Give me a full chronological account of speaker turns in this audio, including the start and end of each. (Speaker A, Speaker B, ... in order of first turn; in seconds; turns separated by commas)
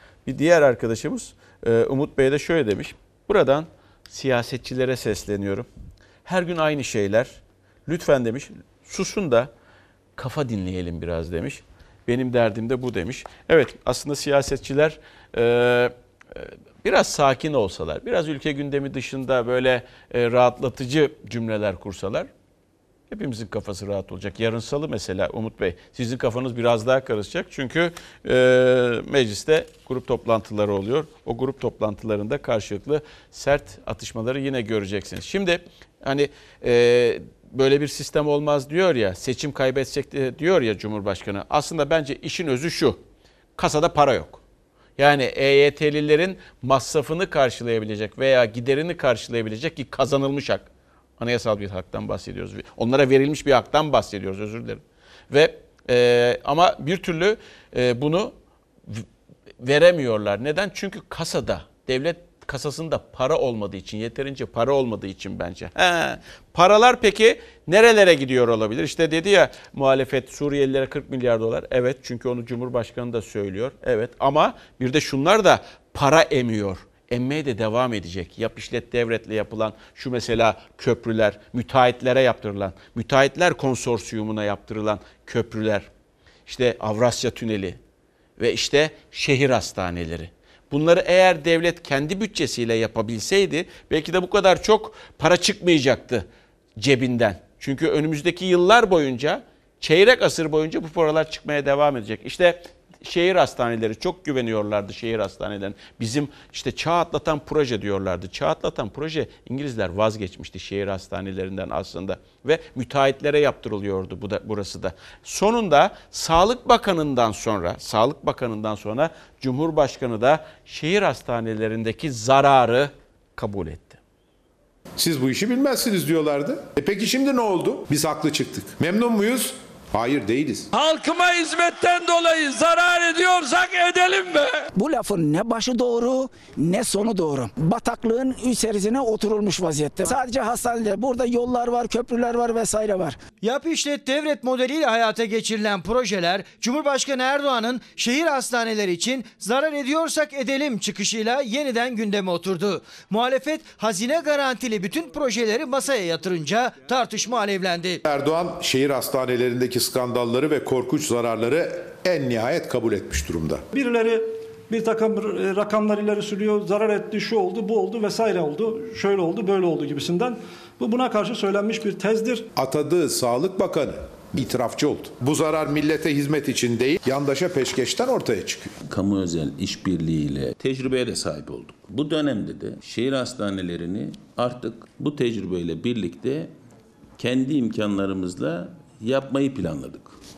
Speaker A: 0.2-5.7, Speaker A: 6.2-9.5, Speaker A: 10.2-22.3, Speaker A: 23.1-43.0, Speaker A: 43.6-44.4, Speaker A: 45.0-58.3, Speaker A: 59.6-85.9, Speaker A: 86.5-87.8, Speaker A: 88.4-96.2, Speaker A: 96.8-124.0, Speaker B: 125.0-130.7, Speaker C: 130.7-134.6, Speaker D: 134.7-143.2, Speaker E: 143.4-158.0, Speaker B: 158.0-163.7, Speaker F: 163.7-172.5, Speaker B: 172.6-178.7, Speaker G: 178.9-186.5, Speaker G: 187.2-190.2